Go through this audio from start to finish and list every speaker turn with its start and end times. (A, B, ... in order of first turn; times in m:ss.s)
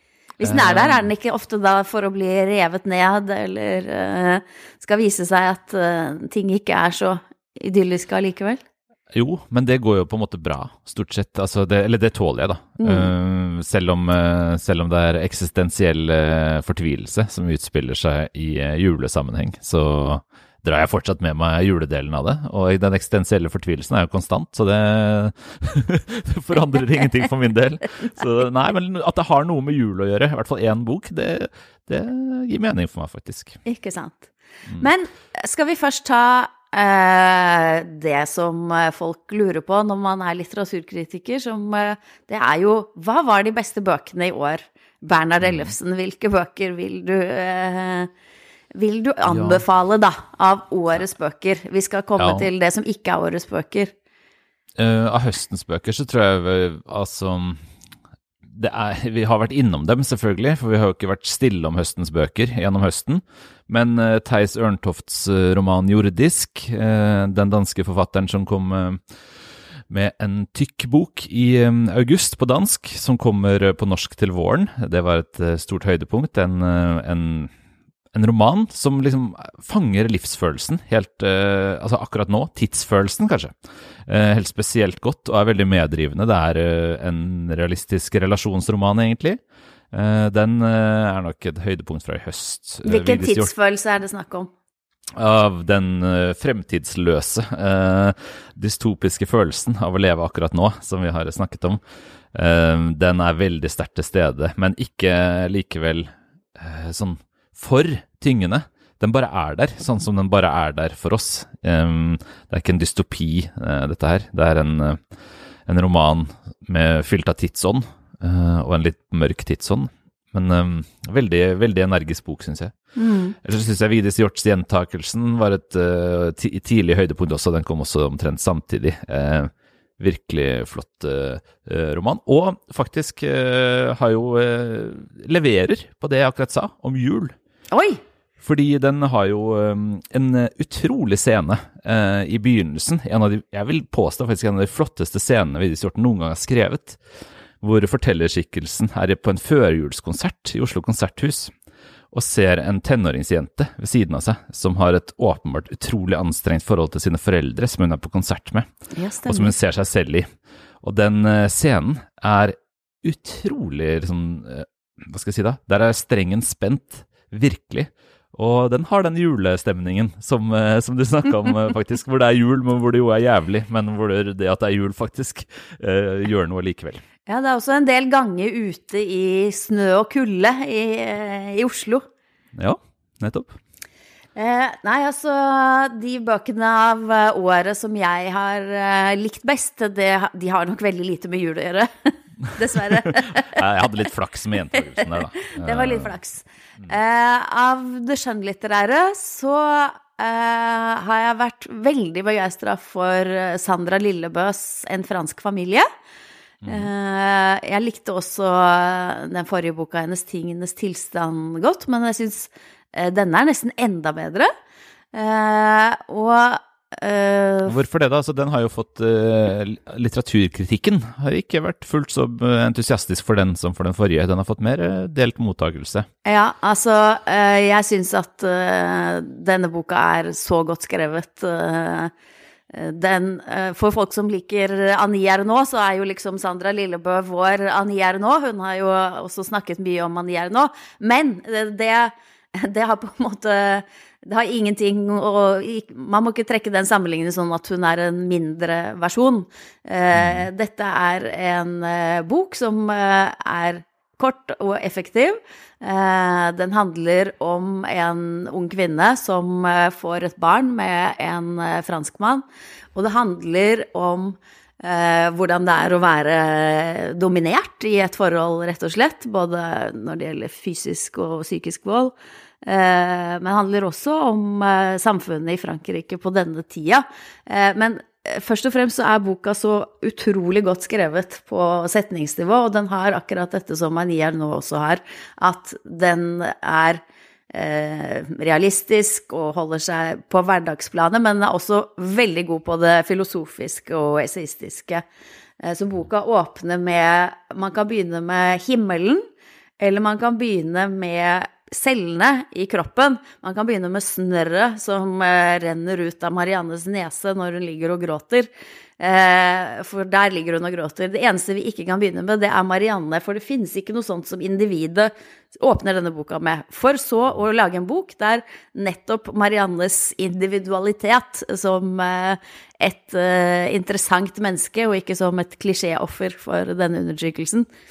0:00.4-0:08.6 A
0:00.4-0:01.1 B
0:09.1-0:33.6 B
0:12.8-0:13.1 A
0:33.6-0:48.1 A
0:45.4-0:45.7 B
0:48.7-0:53.9 A
0:49.2-0:49.6 B
0:52.2-0:52.5 B
0:54.8-0:57.6 B
0:58.5-1:09.0 B
1:09.9-1:17.5 B
1:18.1-1:23.5 B
1:24.1-1:29.4 B
1:29.9-1:33.5 B
1:32.8-1:34.5 A
1:35.2-1:41.8 B
1:42.3-1:55.0 B
1:55.6-2:02.7 B
2:03.0-2:03.4 A
2:03.4-2:17.3 B
2:17.7-2:18.0 A
2:18.4-2:27.0 B
2:27.6-2:31.5 B
2:32.1-2:38.7 B
2:38.9-2:39.5 A
2:39.3-2:40.3 B
2:40.8-2:57.0 B
2:57.3-3:02.0 A
3:02.6-3:03.6 B
3:04.3-3:13.6 A
3:12.5-3:16.1 B
3:15.0-3:25.8 A
3:26.6-3:26.9 B
3:26.6-3:34.5 A
3:35.1-3:37.8 A
3:37.6-3:46.1 B
3:46.2-3:52.1 A
3:52.7-4:55.0 A
4:10.1-4:10.5 B
4:55.6-4:59.2 A
4:59.8-5:27.7 A